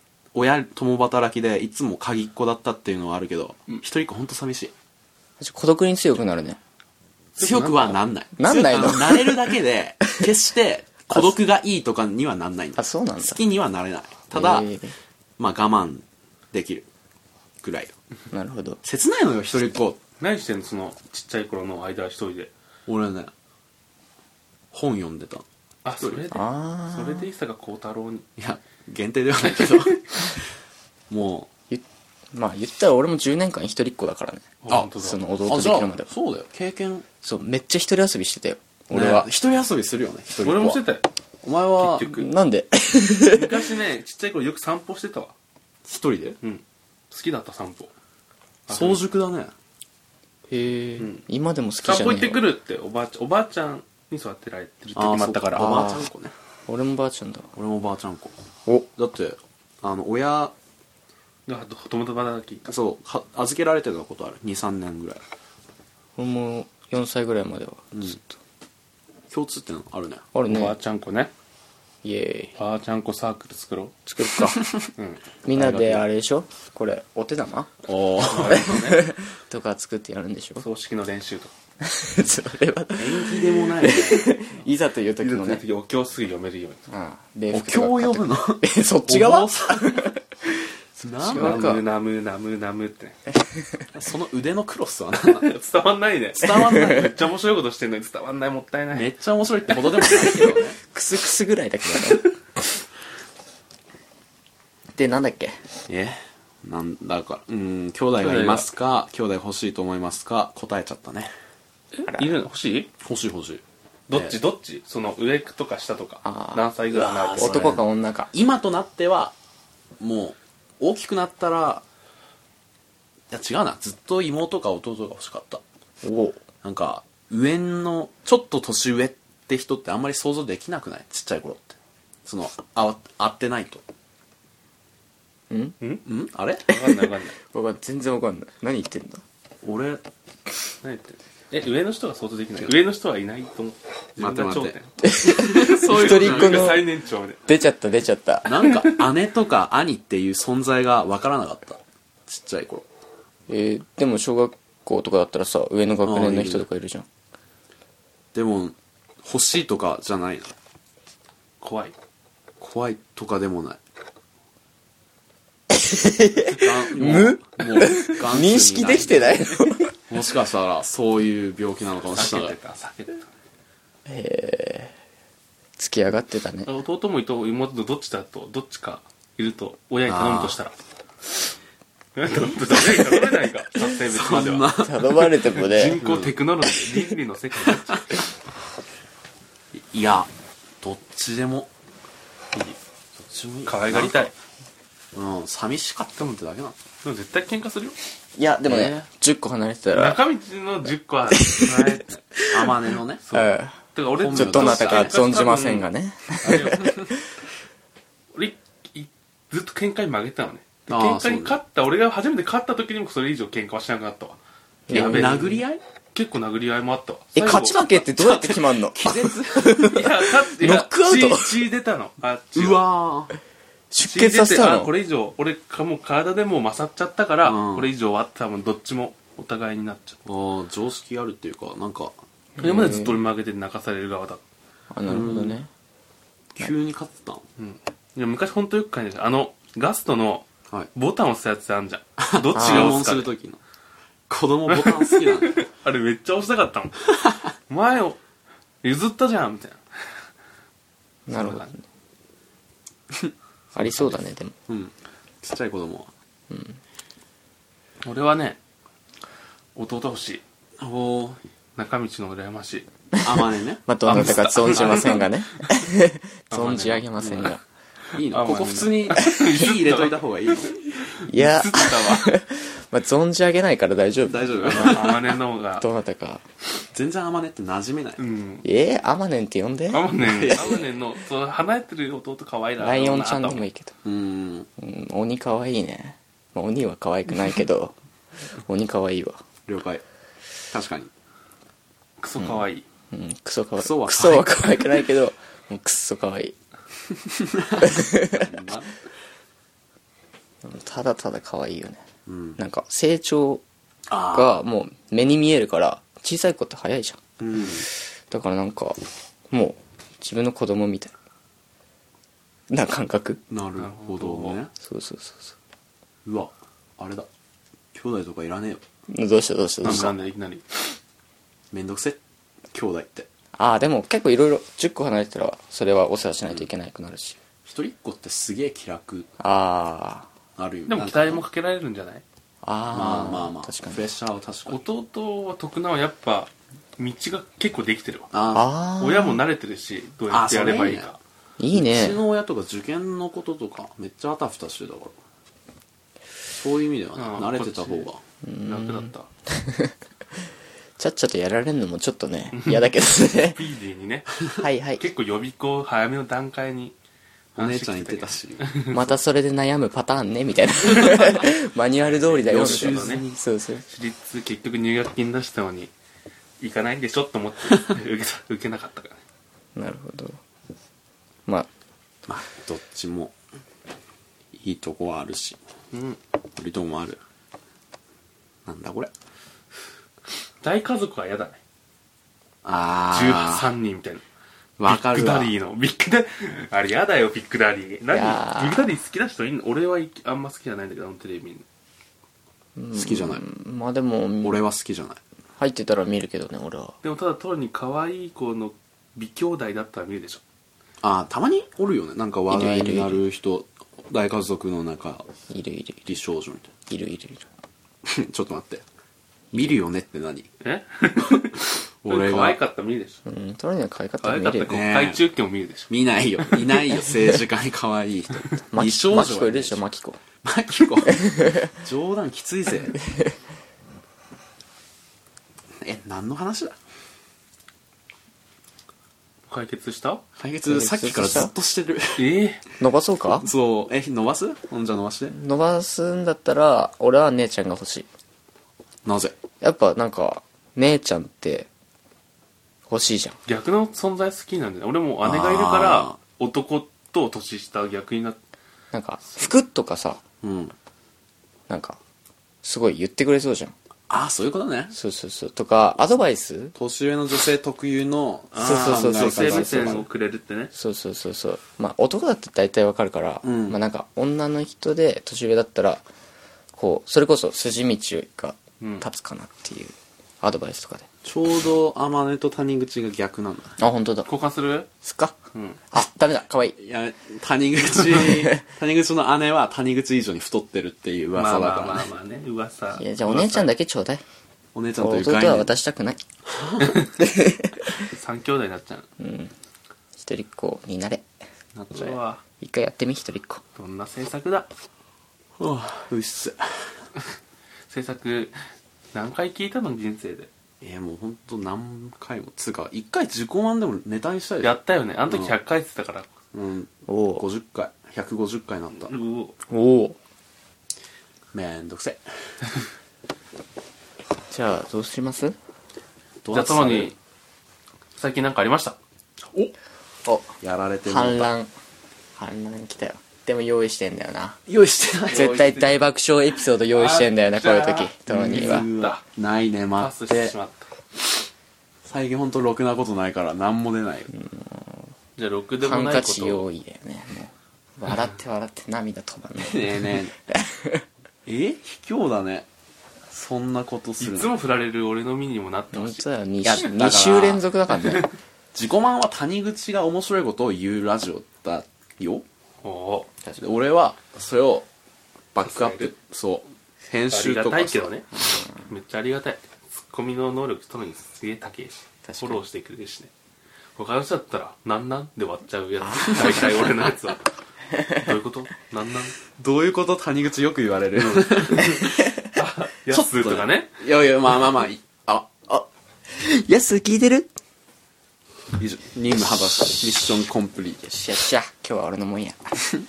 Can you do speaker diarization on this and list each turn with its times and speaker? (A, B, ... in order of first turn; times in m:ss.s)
0:00.3-0:04.7 A
0:05.4-0:06.6 B
0:07.4-0:08.0 C
0:07.4-0:14.7 A
0:08.4-0:10.3 B
0:12.8-0:13.4 B
0:14.3-0:15.0 B
0:15.4-0:16.9 A
0:17.6-0:17.9 A
0:18.3-0:18.8 B
0:18.8-0:20.0 A
0:20.2-0:22.5 C
0:22.9-0:23.3 A
0:24.7-0:25.4 A
0:25.8-0:28.3 C
0:26.3-0:27.3 B
0:28.4-0:30.3 A
0:29.4-0:30.0 C
0:31.1-0:31.5 A
0:31.7-0:36.1 B
0:34.6-0:35.2 C
0:34.7-0:37.1 A
0:37.2-0:39.3 B
0:38.9-0:40.8 A
0:40.4-0:41.1 C
0:41.4-0:42.1 A
0:41.8-0:42.3 C
0:42.1-0:43.6 B
0:43.3-0:45.3 C
0:45.9-0:46.4 A
0:46.4-0:47.9 C
0:48.7-0:49.0 C
0:48.7-0:49.5 A
0:50.5-0:52.5 B
0:51.0-0:51.2 C
0:51.8-0:55.9 C
0:55.0-0:56.3 A
0:55.6-0:56.1 B
0:56.7-0:57.5 B
0:57.5-0:58.3 A
0:59.0-1:00.5 A
1:01.5-1:02.7 C
1:02.7-1:05.2 A
1:06.2-1:08.4 B
1:07.9-1:08.2 A
1:09.3-1:10.2 A
1:10.3-1:10.8 B
1:10.4-1:11.3 C
1:12.0-1:12.6 B
1:12.6-1:14.0 C
1:14.1-1:14.7 B
1:15.0-1:15.2 C
1:15.4-1:17.7 B
1:15.5-1:16.1 A
1:17.8-1:18.8 A
1:18.2-1:19.1 C
1:18.5-1:20.7 B
1:20.6-1:21.5 C
1:21.8-1:25.6 B
1:23.0-1:24.3 A
1:23.9-1:24.7 C
1:25.2-1:26.8 C
1:26.9-1:30.6 B
1:27.5-1:30.2 A
1:31.0-1:31.7 A
1:31.2-1:31.8 B
1:31.3-1:33.2 C
1:33.4-1:33.8 B
1:33.9-1:35.5 A
1:35.2-1:39.1 C
1:36.3-1:37.2 A
1:36.6-1:36.9 B
1:39.0-1:40.8 A
1:39.7-1:40.6 C
1:40.2-1:42.3 B
1:45.0-1:45.7 B
1:45.9-1:51.3 A
1:48.2-1:48.7 C
1:52.0-1:52.4 B
1:52.1-1:52.9 C
1:53.0-1:54.4 A
1:54.1-1:57.8 C
1:56.2-1:56.7 B
1:56.9-1:59.4 A
1:57.3-1:58.3 B
2:00.0-2:01.8 A
2:03.3-2:05.6 A
2:06.0-2:06.4 B
2:06.6-2:13.8 A
2:15.5-2:15.8 B
2:16.1-2:16.7 A
2:16.7-2:17.4 C
2:17.4-2:19.2 B
2:19.6-2:20.0 A
2:20.8-2:25.1 C
2:24.2-2:26.8 A
2:25.0-2:26.9 B
2:25.6-2:27.4 C
2:27.5-2:28.7 B
2:28.5-2:32.9 A
2:33.5-2:37.1 B
2:36.0-2:36.7 A
2:38.4-2:40.5 A
2:41.6-2:42.0 C
2:42.6-2:43.8 A
2:45.7-2:49.9 B
2:46.4-2:49.4 A
2:50.1-2:52.6 A
2:52.1-2:53.3 C
2:54.1-2:54.9 B
2:55.8-2:56.7 B
2:56.7-3:00.8 C
3:00.1-3:00.6 A
3:02.2-3:04.8 C
3:04.1-3:05.4 A
3:04.8-3:06.0 B
3:05.6-3:08.2 C
3:06.0-3:07.1 A
3:09.7-3:10.3 A
3:10.8-3:11.7 A
3:12.5-3:12.8 C
3:13.2-3:14.3 A
3:13.7-3:14.3 C
3:15.2-3:16.8 A
3:17.0-3:18.0 C
3:18.4-3:20.2 B
3:18.7-3:19.1 A
3:19.9-3:22.2 C
3:21.3-3:27.2 B
3:22.5-3:23.2 A
3:23.2-3:25.9 C
3:24.2-3:25.5 A
3:26.4-3:27.2 A
3:28.3-3:34.4 C
3:30.9-3:31.6 A
3:34.9-3:35.4 B
3:34.9-3:37.8 C
3:34.9-3:35.8 A
3:37.4-3:41.6 B
3:37.4-3:40.1 A
3:39.9-3:42.8 C
3:42.6-3:43.3 A
3:43.9-3:44.9 B
3:44.0-3:50.2 C
3:47.4-3:47.9 A
3:50.3-3:52.1 A
3:52.6-3:53.2 B
3:52.6-3:54.4 C
3:54.9-3:55.7 B
3:55.1-3:55.6 A
3:56.6-3:57.4 A
3:57.6-4:03.3 C
4:02.2-4:03.6 A
4:02.6-4:03.0 B
4:04.3-4:05.6 A
4:04.7-4:07.0 C
4:07.7-4:08.2 C
4:08.8-4:09.8 C
4:11.3-4:11.8 C
4:11.3-4:11.8 B
4:13.8-4:14.6 B
4:14.7-4:16.1 A
4:16.5-4:16.8 B
4:18.0-4:18.6 C
4:19.8-4:20.4 C
4:20.8-4:21.4 A
4:21.8-4:22.9 C
4:23.1-4:27.6 B
4:23.2-4:25.3 A
4:24.0-4:25.3 C
4:26.5-4:27.1 C
4:27.2-4:27.5 A
4:28.2-4:31.0 A
4:28.2-4:32.4 C
4:31.3-4:35.2 B
4:34.3-4:35.4 A
4:34.6-4:35.9 C
4:35.8-4:36.4 B
4:36.9-4:38.2 A
4:38.2-4:38.7 C
4:38.6-4:40.8 B
4:39.9-4:43.6 C
4:40.2-4:40.9 A
4:42.8-4:44.0 B
4:44.0-4:44.7 A
4:44.8-4:48.0 B
4:48.6-4:49.4 B
4:49.7-4:50.0 A
4:50.7-4:51.1 A
4:52.2-4:52.8 C
4:52.4-4:56.6 B
4:53.8-4:55.0 A
4:57.4-4:59.0 A
4:57.8-4:58.5 B
5:00.6-5:02.0 B
5:02.3-5:02.6 A
5:02.6-5:03.6 B
5:04.1-5:04.6 A
5:04.2-5:09.0 B
5:07.4-5:07.9 A
5:09.5-5:11.1 B
5:12.7-5:13.4 B
5:13.5-5:14.7 A
5:13.8-5:14.6 C
5:14.8-5:15.6 B
5:16.2-5:17.3 A
5:17.9-5:18.8 A
5:19.1-5:20.2 B
5:19.8-5:21.0 C
5:19.8-5:20.1 A
5:21.7-5:22.2 A
5:22.7-5:23.3 A
5:23.6-5:27.4 B
5:27.6-5:29.3 A
5:29.4-5:30.3 B
5:30.6-5:31.4 A
5:30.9-5:32.2 C
5:32.6-5:34.0 B
5:32.9-5:34.8 A
5:34.7-5:38.3 C
5:38.3-5:38.7 A
5:38.5-5:39.4 B
5:39.0-5:41.2 C
5:40.3-5:41.1 A
5:41.6-5:42.2 B
5:41.7-5:45.2 A
5:46.6-5:48.2 A
5:47.2-5:48.1 C
5:48.4-5:49.9 B
5:48.6-5:49.3 C
5:51.0-5:53.6 B
5:52.5-5:54.4 C
5:54.6-5:55.1 B
5:55.0-5:57.0 C
5:57.6-5:58.8 A
5:57.6-5:59.0 C
5:58.9-6:03.9 B
6:01.0-6:01.5 C
6:02.0-6:03.2 C
6:02.4-6:03.4 A
6:03.9-6:05.9 C
6:06.6-6:09.2 C
6:09.8-6:10.4 B
6:12.3-6:13.3 A
6:14.5-6:15.6 A
6:15.9-6:16.2 C
6:16.6-6:17.2 A
6:18.7-6:19.1 A
6:20.6-6:21.6 C
6:22.6-6:23.7 A
6:23.1-6:24.2 C
6:24.8-6:25.5 A
6:24.9-6:31.6 C
6:28.1-6:28.9 B
6:32.8-6:34.6 B
6:33.0-6:33.4 A
6:34.4-6:35.2 A
6:35.6-6:37.0 B
6:37.0-6:40.4 C
6:41.0-6:45.3 A
6:42.5-6:43.2 B
6:45.5-6:46.1 B
6:46.0-6:46.7 A
6:46.9-6:47.5 B
6:48.1-6:48.8 A
6:49.5-6:50.5 A
6:50.6-6:53.2 C
6:52.0-6:52.6 A
6:53.2-6:54.8 B
6:54.2-6:55.9 C
6:54.7-6:55.2 A
6:55.9-6:59.8 A
6:58.7-7:00.2 B
7:00.4-7:03.0 A
7:01.1-7:01.7 B
7:03.0-7:03.3 B
7:05.8-7:06.8 A
7:09.5-7:10.2 C
7:10.4-7:12.4 A
7:10.6-7:11.5 B
7:12.2-7:12.6 C
7:12.8-7:13.5 B
7:13.4-7:15.4 A
7:15.3-7:18.1 B
7:19.1-7:19.4 A
7:19.6-7:21.7 B
7:22.9-7:23.4 B
7:23.5-7:28.4 C
7:25.2-7:26.2 A
7:28.9-7:30.2 B
7:30.4-7:30.7 A
7:31.7-7:32.0 B
7:32.6-7:33.7 B
7:34.1-7:34.9 A
7:34.9-7:36.8 B
7:36.8-7:40.1 A
7:38.5-7:40.7 C
7:38.6-7:40.1 B
7:40.7-7:46.0 B
7:43.4-7:43.8 A
7:46.7-7:51.1 B
7:48.8-7:49.1 C
7:51.2-7:53.8 A
7:53.8-7:54.3 B
7:54.3-7:54.9 C
7:55.0-7:55.4 B
7:55.5-7:55.8 C
7:55.9-7:56.8 B
7:56.8-8:02.1 A
7:58.2-7:58.6 B
8:01.3-8:03.7 C
8:03.0-8:04.2 B
8:04.8-8:05.7 A
8:05.0-8:06.2 B
8:06.5-8:07.1 A
8:07.2-8:07.9 B
8:08.0-8:09.1 C
8:09.2-8:09.5 B
8:10.2-8:11.3 B
8:11.8-8:12.2 A
8:11.9-8:12.4 C
8:12.6-8:13.6 B
8:13.8-8:14.7 C
8:15.6-8:16.6 A
8:17.9-8:18.6 C
8:19.1-8:20.5 C
8:20.8-8:24.8 A
8:24.6-8:26.3 C
8:25.3-8:25.6 A
8:26.5-8:29.1 A
8:27.1-8:27.4 B
8:29.0-8:29.6 C
8:29.7-8:30.2 B
8:31.5-8:32.2 A
8:34.5-8:35.6 B
8:36.4-8:37.2 A
8:36.5-8:37.2 C
8:38.2-8:39.0 C
8:40.2-8:41.7 B
8:40.6-8:41.5 A
8:42.4-8:44.6 B
8:44.7-8:45.6 A
8:45.3-8:48.9 B
8:45.3-8:46.0 C
8:46.9-8:49.2 C
8:48.3-8:50.5 A
8:50.0-8:50.9 C
8:52.0-8:54.3 A
8:54.3-8:55.0 B
8:55.4-8:56.7 C
8:55.8-9:01.0 B
8:59.6-9:00.4 A
9:01.5-9:02.7 A
9:03.3-9:04.5 A
9:04.2-9:06.2 C
9:05.9-9:08.3 B
9:06.6-9:07.7 A
9:08.8-9:12.4 A
9:12.8-9:13.3 C
9:13.6-9:14.9 A
9:15.6-9:18.1 A
9:15.6-9:16.1 C
9:17.3-9:23.3 C
9:18.4-9:18.9 B
9:22.2-9:22.6 B
9:24.0-9:27.4 C
9:26.0-9:27.0 B
9:26.2-9:26.7 A
9:27.9-9:28.2 B
9:28.1-9:29.4 C
9:29.6-9:32.3 A
9:31.1-9:33.9 C
9:33.1-9:35.7 A
9:36.3-9:37.5 B
9:38.8-9:41.1 A
9:41.1-9:42.6 B